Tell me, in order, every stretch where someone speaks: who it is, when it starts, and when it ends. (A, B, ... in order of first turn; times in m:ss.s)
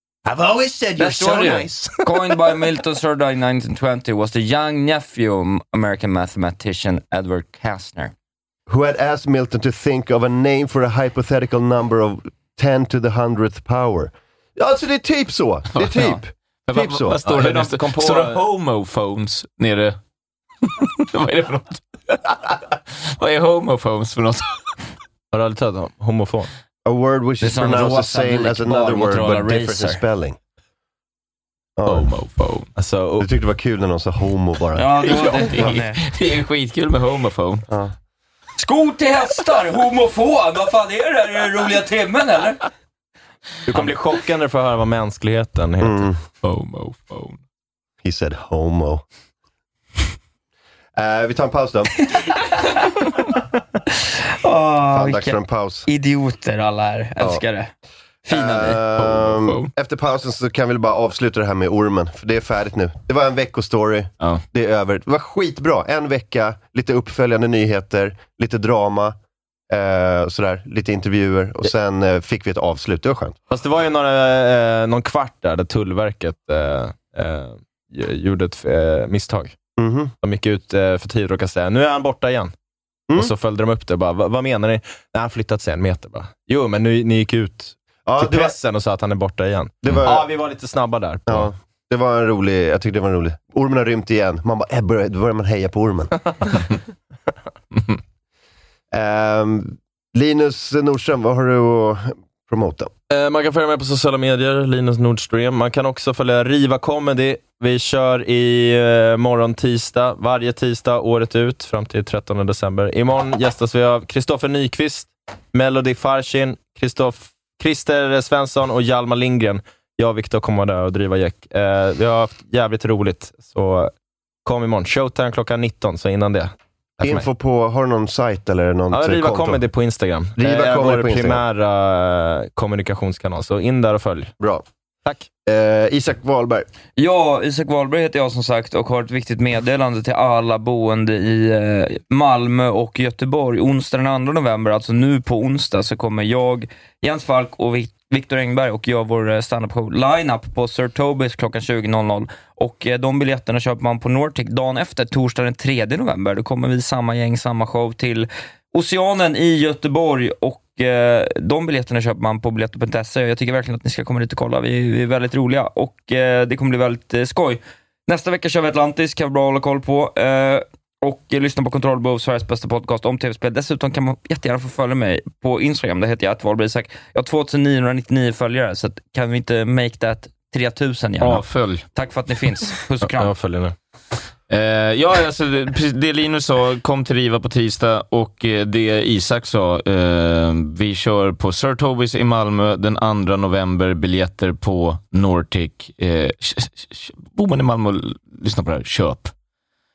0:00.2-0:02.3 A
0:01.0-0:08.1 B
0:08.7-0:17.2 C
0:15.8-0:20.0 D
0:17.2-0:18.4 E
0:20.6-0:24.6 D
0:25.3-0:26.5 E
0:26.8-0:30.4 C
0:27.4-0:30.0 B
0:31.8-0:32.1 C
0:31.9-0:32.7 D
0:32.8-0:33.3 E
0:33.2-0:34.9 C
0:34.8-0:36.0 B
0:35.0-0:37.6 D
0:37.7-0:37.9 C
0:38.6-0:42.6 B
0:43.7-0:46.1 E
0:45.8-0:46.2 C
0:46.4-0:47.4 D
0:48.0-0:49.0 C
0:51.0-0:52.0 C
0:54.4-0:57.7 B
0:54.9-0:55.9 C
0:58.2-0:58.8 B
0:58.3-1:09.2 C
0:59.0-0:59.7 D
1:09.7-1:13.4 C
1:13.5-1:19.6 E
1:19.8-1:20.1 C
1:20.2-1:22.5 E
1:23.1-1:31.5 E
1:28.0-1:28.6 C
1:29.8-1:30.3 C
1:31.3-1:36.1 C
1:38.9-1:42.9 C
1:43.1-2:03.9 E
2:04.4-2:07.2 E
2:07.0-2:09.6 C
2:08.9-2:14.3 E
2:10.4-2:11.4 C
2:14.4-2:14.6 C
2:15.4-2:16.7 C
2:17.0-3:03.3 B
3:01.2-3:01.8 D
3:03.0-3:03.7 E
3:04.5-3:19.3 D